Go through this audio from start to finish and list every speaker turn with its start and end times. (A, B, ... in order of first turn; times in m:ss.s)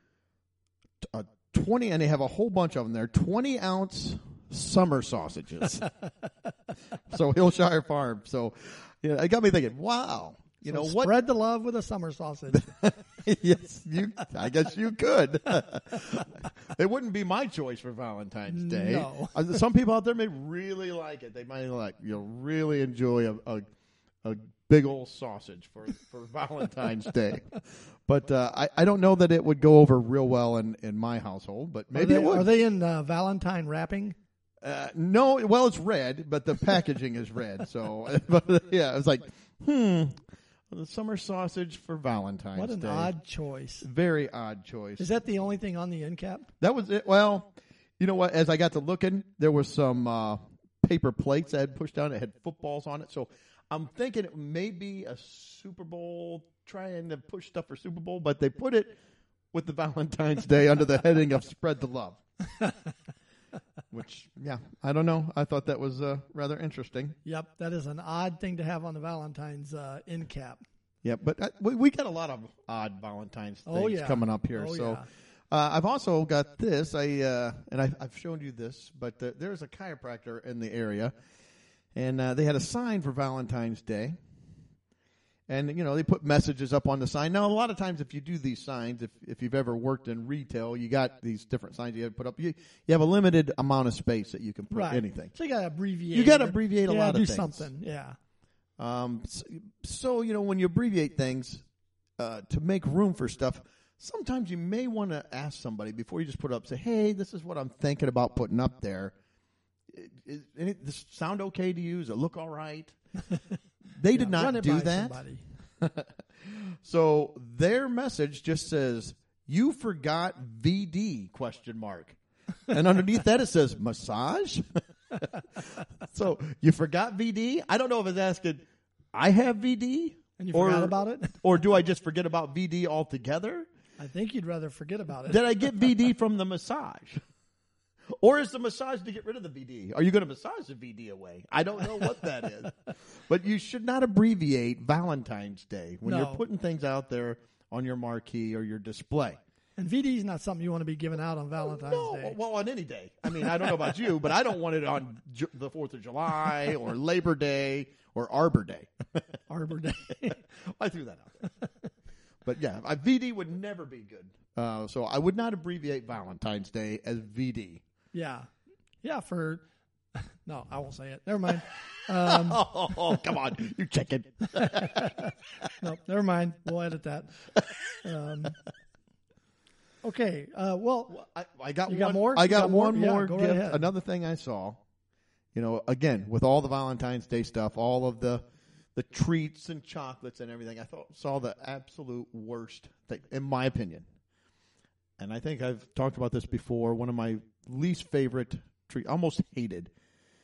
0:01.0-0:05.9 A
0:07.1-0:11.1 A
0:10.6-0:12.7 B
0:12.5-0:23.6 A
0:18.5-0:19.3 B
0:24.2-0:32.5 A
0:31.9-0:34.2 B
0:34.6-0:43.1 A
0:42.5-0:43.8 B
0:43.8-0:45.0 A
0:45.0-0:46.5 B
0:46.6-0:59.0 A
0:59.5-1:02.2 A
1:03.9-1:07.2 A
1:07.2-1:10.6 B
1:11.0-1:21.1 A
1:13.6-1:15.0 B
1:21.9-1:24.2 A
1:25.5-1:35.3 A
1:34.7-1:38.2 B
1:36.1-1:37.7 A
1:38.8-1:41.6 A
1:42.2-1:49.1 A
1:49.9-1:53.0 A
1:54.0-1:55.2 A
1:54.1-1:55.4 B
1:55.8-2:02.2 A
2:02.7-2:13.7 A
2:10.4-2:11.4 B
2:14.0-2:15.4 B
2:15.3-2:17.2 A
2:18.2-2:29.4 A
2:26.0-2:26.4 B
2:29.8-2:32.4 B
2:31.6-2:39.2 A
2:39.5-2:40.4 B
2:40.2-2:41.5 A
2:42.4-2:47.8 A
2:48.1-2:48.5 B
2:49.0-2:49.6 B
2:50.1-2:52.6 B
2:52.2-2:55.7 A
2:54.5-2:55.3 B
2:55.8-2:57.4 B
2:57.6-2:58.0 A
2:58.0-2:58.6 B
3:00.0-3:01.1 B
3:01.1-3:04.8 A
3:01.9-3:03.9 B
3:05.5-3:08.4 A
3:08.9-3:14.0 A
3:15.2-3:19.9 A